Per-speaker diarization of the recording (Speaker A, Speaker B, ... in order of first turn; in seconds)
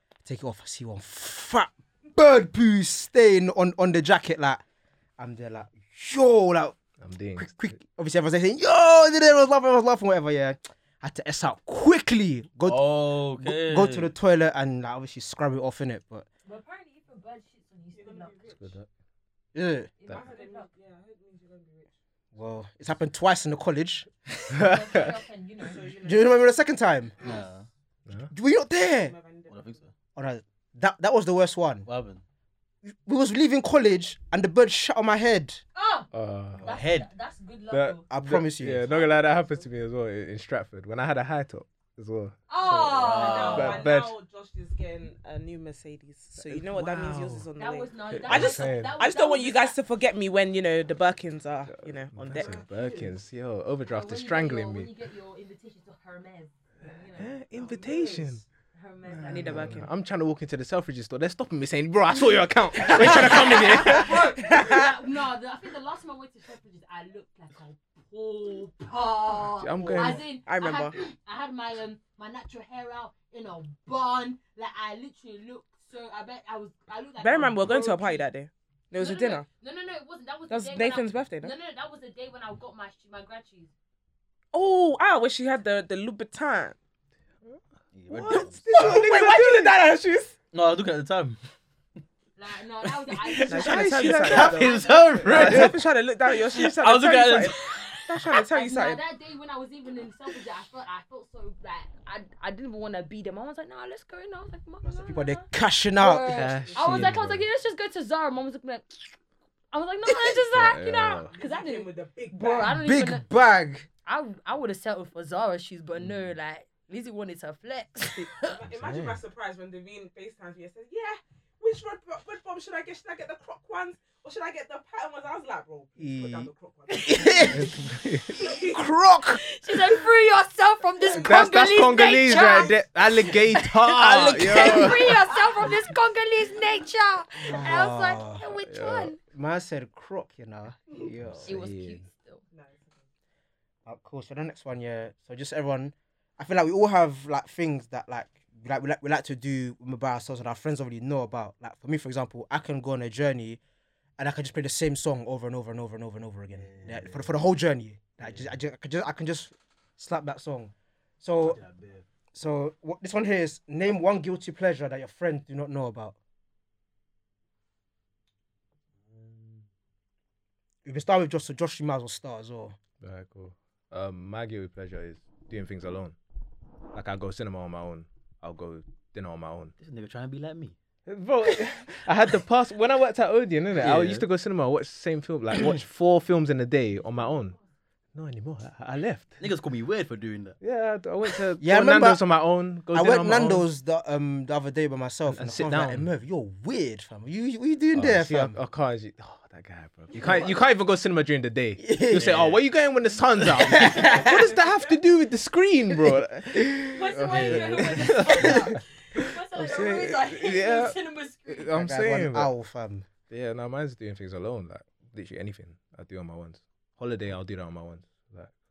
Speaker A: 0.2-4.6, 5.2-6.8, 7.3-16.2, 19.5-19.9, 22.3-24.4, 26.0-27.1, 28.3-29.1, 30.1-31.9, 32.9-35.6, 38.1-38.9, 104.8-106.8, 112.7-113.9, 126.0-126.5, 127.0-127.7, 128.4-129.4, 137.4-138.4, 139.2-141.6, 143.8-153.6, 154.2-161.6, 162.3-166.2, 170.8-172.8, 191.6-192.2, 192.9-198.6, 201.8-202.6, 203.4-204.4, 211.7-213.1
Speaker B: 7.0-7.8, 18.6-18.9, 24.5-25.1, 36.1-36.8, 37.7-44.1, 46.4-47.5, 48.1-48.9, 51.8-54.9, 57.1-58.4, 59.1-64.2, 69.6-70.2, 88.3-89.8, 95.3-95.7, 106.3-107.4, 110.5-111.3, 118.7-119.2, 127.5-128.4, 131.1-135.2, 138.6-139.1, 141.2-142.0, 173.0-176.2, 176.9-179.7, 181.1-187.6, 188.1-189.3, 190.6-193.7, 195.3-196.1, 197.9-210.9, 211.5-212.5, 213.3-218.5
Speaker C: 12.7-14.1, 27.2-27.7, 29.5-29.9, 31.9-32.2, 36.6-37.1, 43.0-43.8, 87.9-88.7, 90.5-91.4, 93.1-95.8, 96.5-97.5, 134.2-134.5, 156.5-157.3, 158.2-158.5, 161.4-162.0, 169.1-169.6, 179.8-180.7, 183.8-184.2, 189.4-190.6, 202.1-202.6, 207.3-208.2
Speaker D: 16.4-18.4, 20.0-20.7, 24.6-25.8, 35.7-36.1, 36.6-38.0, 42.5-43.8, 47.6-49.8, 52.4-52.7, 53.9-57.8, 58.7-59.9, 62.8-78.3, 78.9-83.7, 92.4-95.5, 97.6-105.5, 106.0-109.1, 109.7-113.2, 114.0-118.6, 127.2-127.5, 129.3-139.2, 141.4-142.4, 206.9-211.8
Speaker E: 17.9-18.7, 20.1-21.9, 25.6-26.5, 29.0-29.8, 38.8-39.6, 43.0-53.0, 57.5-58.3, 59.2-59.9, 62.8-64.8, 69.8-71.0, 77.2-79.5, 80.5-81.5, 84.5-86.8, 88.2-90.3, 93.5-99.0, 106.7-107.1, 111.3-112.8, 118.4-127.8, 128.3-128.8, 132.3-132.6, 142.5-143.0, 200.1-200.4, 204.3-204.8